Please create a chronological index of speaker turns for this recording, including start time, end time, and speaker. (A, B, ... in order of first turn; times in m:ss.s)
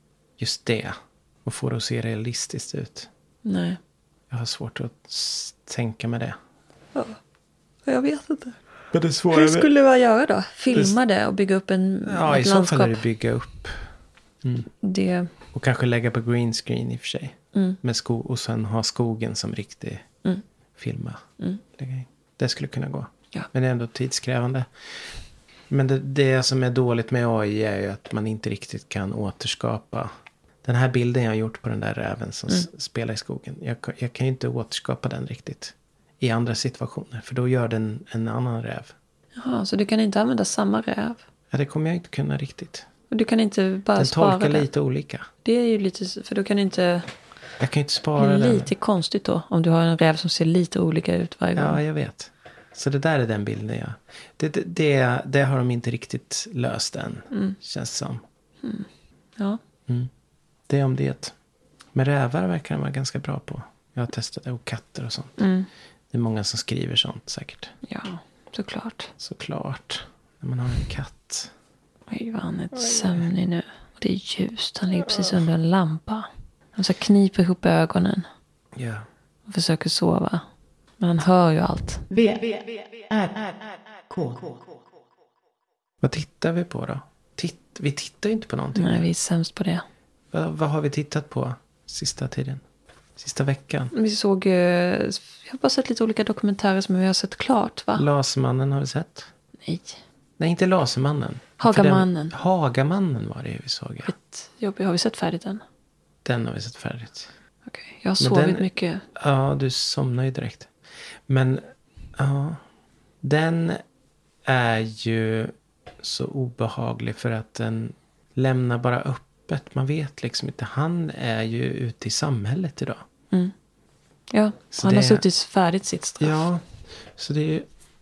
0:00.4-0:03.1 A
0:03.4-0:03.8 B
0:04.3-0:06.4 A
0:07.8-0:08.6 B
0:08.9-0:09.7 A
0:09.3-0:13.0 B
0:12.0-0:13.8 A
0:14.4-0:14.7 A
0:14.8-0:15.3 B
0:15.5-0:20.0 A
0:17.5-0:17.8 B
0:20.8-0:25.1 A
0:25.7-0:30.1 A
0:30.6-0:38.9 A
0:39.4-0:41.2 B
0:41.5-0:42.9 A
0:43.1-0:44.7 B
0:44.0-0:45.3 A
0:45.4-0:47.1 B
0:47.6-0:48.7 A
0:48.2-0:51.8 B
0:51.5-0:58.2 A
0:57.3-0:57.6 B
1:00.7-1:01.3 A
1:01.9-1:05.4 A
1:05.4-1:05.7 B
1:06.1-1:07.7 A
1:07.8-1:09.1 B
1:09.2-1:11.5 A
1:12.1-1:18.3 B
1:12.7-1:13.2 A
1:15.0-1:15.4 A
1:18.7-1:19.0 A
1:19.5-1:20.4 B
1:21.0-1:22.0 B
1:22.1-1:24.8 C
1:26.0-1:29.0 A
1:28.7-1:29.8 B
1:30.3-1:32.6 A
1:33.2-1:33.9 A
1:33.9-1:38.0 B
1:37.9-1:39.3 A
1:39.6-1:40.0 B
1:40.4-1:44.1 A
1:41.6-1:42.3 B
1:44.1-1:45.6 B
1:46.2-1:47.3 A
1:47.7-1:49.0 B
1:48.2-1:50.7 A
1:51.3-1:51.6 A
1:52.2-1:52.6 A
1:53.2-1:53.8 A
1:54.4-2:03.0 A
2:04.3-2:06.5 B
2:04.7-2:05.2 A
2:06.2-2:07.7 A